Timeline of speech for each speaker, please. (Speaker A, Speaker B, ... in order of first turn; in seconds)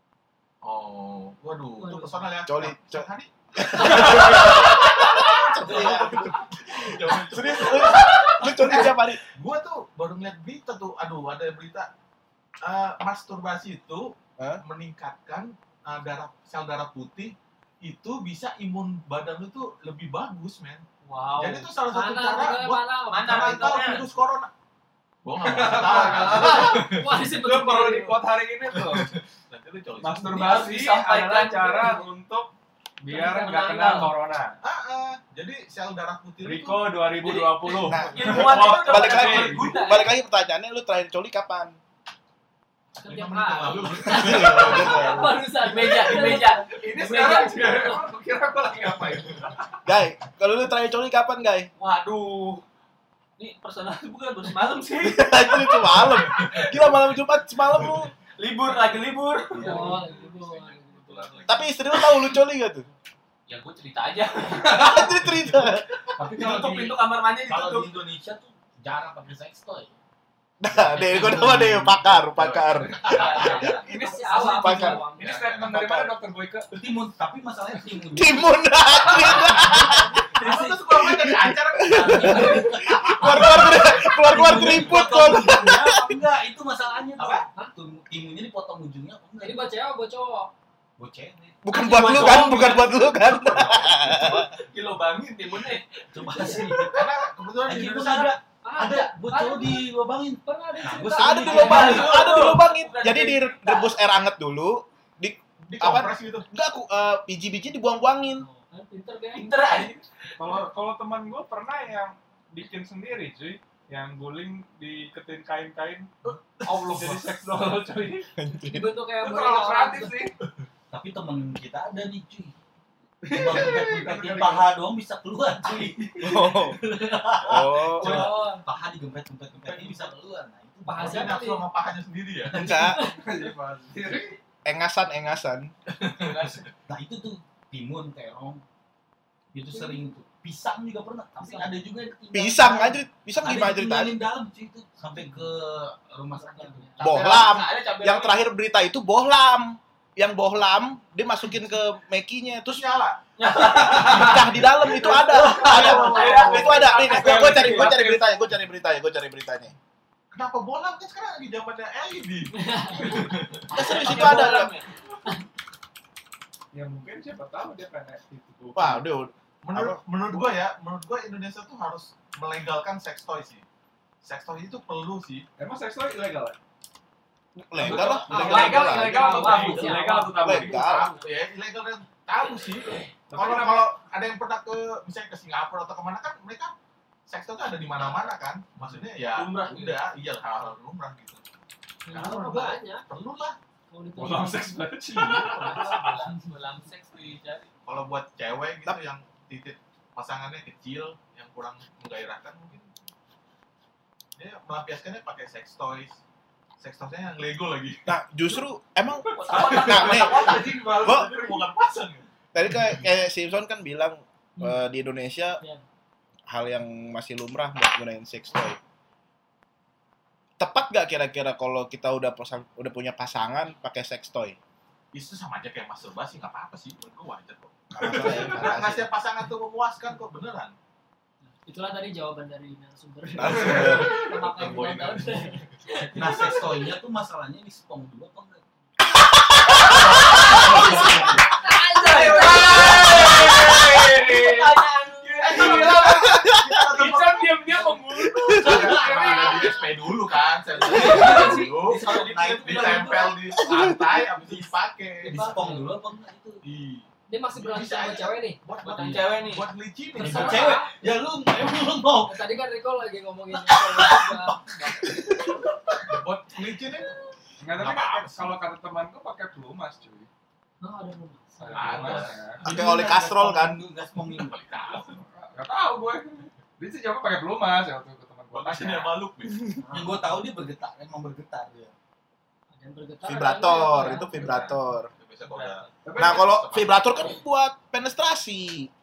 Speaker A: 0.6-11.9, 12.6-20.9, 21.4-24.5, 25.2-27.0, 28.7-30.5, 34.6-37.0, 38.1-38.4, 43.0-45.1, 59.5-61.8, 72.3-73.8, 75.2-75.8, 80.3-84.0, 96.9-98.3, 105.7-106.5, 116.2-117.4, 131.0-132.6, 136.0-136.7, 152.7-153.2, 153.9-154.8, 160.3-164.2, 169.6-173.7, 174.2-175.5, 180.9-186.7, 187.3-191.4, 192.1-193.6, 195.1-195.8, 197.9-203.0, 204.4-206.2, 206.8-208.1, 209.5-213.0, 225.1-230.8, 233.5-235.7, 239.9-241.1, 245.4-252.0, 252.6-255.6, 256.6-260.9, 266.1-267.1, 267.7-268.6, 271.7-272.6, 274.3-275.2, 278.5-279.8, 285.2-287.4
Speaker B: 1.8-2.3, 5.7-6.1, 21.9-24.1, 25.9-28.2, 33.1-33.5, 43.0-46.7, 59.6-61.6, 73.8-75.4, 79.7-80.1, 89.4-90.5, 96.3-96.7, 98.6-99.9, 100.4-102.1, 108.4-109.5, 118.7-120.2, 128.0-128.7, 130.9-131.6, 132.8-133.2, 139.7-140.0, 141.4-141.8, 146.4-147.2, 155.4-157.1, 162.6-163.3, 178.2-180.9, 192.1-193.1, 193.9-194.9, 214.6-214.8, 231.7-236.9, 240.4-243.1, 249.2-249.8, 250.9-251.7, 255.3-255.9, 257.3-258.6, 260.2-261.0, 262.2-265.0, 270.8-272.3, 279.8-280.4, 282.7-284.7
Speaker C: 2.5-9.2, 37.9-41.8, 44.0-45.4, 49.9-51.7, 55.0-58.1, 61.5-62.9, 64.7-65.8, 70.6-75.0, 75.7-76.1, 78.1-80.2, 81.0-86.2, 91.6-94.5, 101.2-108.5, 118.4-119.0, 126.2-126.8, 127.4-128.3, 132.5-133.0, 134.7-135.7, 142.3-144.2, 147.0-152.8, 154.0-159.8, 163.7-164.7, 168.8-170.5, 177.7-179.8, 180.4-181.2, 208.1-211.3, 212.5-215.6, 216.5-218.8, 220.6-224.6, 227.9-229.1, 233.4-234.1, 239.7-240.0, 246.1-246.8, 248.1-249.0, 253.6-254.2, 272.6-273.8, 283.2-285.1, 286.2-288.9
Speaker D: 3.8-4.5, 25.4-29.1, 30.0-32.5, 33.0-34.6, 36.4-39.8, 46.8-49.7, 73.4-76.7, 110.4-116.1, 116.7-118.3, 119.2-120.3, 123.2-124.7, 133.1-134.4, 153.8-154.3, 156.3-158.3, 166.7-169.1, 175.6-176.6, 177.8-181.1, 183.3-183.9, 194.2-196.1, 209.4-211.7, 233.6-234.1, 240.7-241.3, 242.0-244.8, 245.4-249.8, 267.6-270.3, 271.6-272.6, 275.0-279.2, 286.1-286.6
Speaker E: 7.6-8.2, 21.0-21.7, 23.1-24.1, 30.3-32.0, 33.1-34.1, 37.2-40.1, 45.6-48.0, 51.8-52.6, 53.4-57.1, 58.4-60.0, 62.0-62.3, 63.5-68.0, 70.9-71.6, 72.8-73.8, 80.3-81.0, 81.9-82.9, 91.7-97.1, 97.7-98.3, 101.5-104.0, 109.3-110.3, 125.7-126.5, 136.1-136.7, 147.0-148.4, 153.4-157.7, 162.9-164.9, 182.4-183.1, 188.0-188.3, 189.3-190.0, 195.3-197.7, 209.3-210.6, 240.3-241.0, 242.0-245.9, 250.8-253.3, 258.8-259.7, 285.5-285.9
Speaker F: 66.2-70.0, 71.0-71.9, 76.7-78.5, 79.1-80.0, 82.2-89.7, 91.0-94.4, 96.1-102.3, 120.9-122.5, 123.3-131.5, 132.5-133.0, 136.9-138.6, 139.5-147.6, 164.1-164.5, 177.9-178.8, 196.1-196.4, 236.1-238.7, 240.9-241.3, 250.9-253.5, 255.2-256.6, 258.9-259.2, 260.2-262.5, 263.5-265.1, 272.6-274.6, 279.9-281.9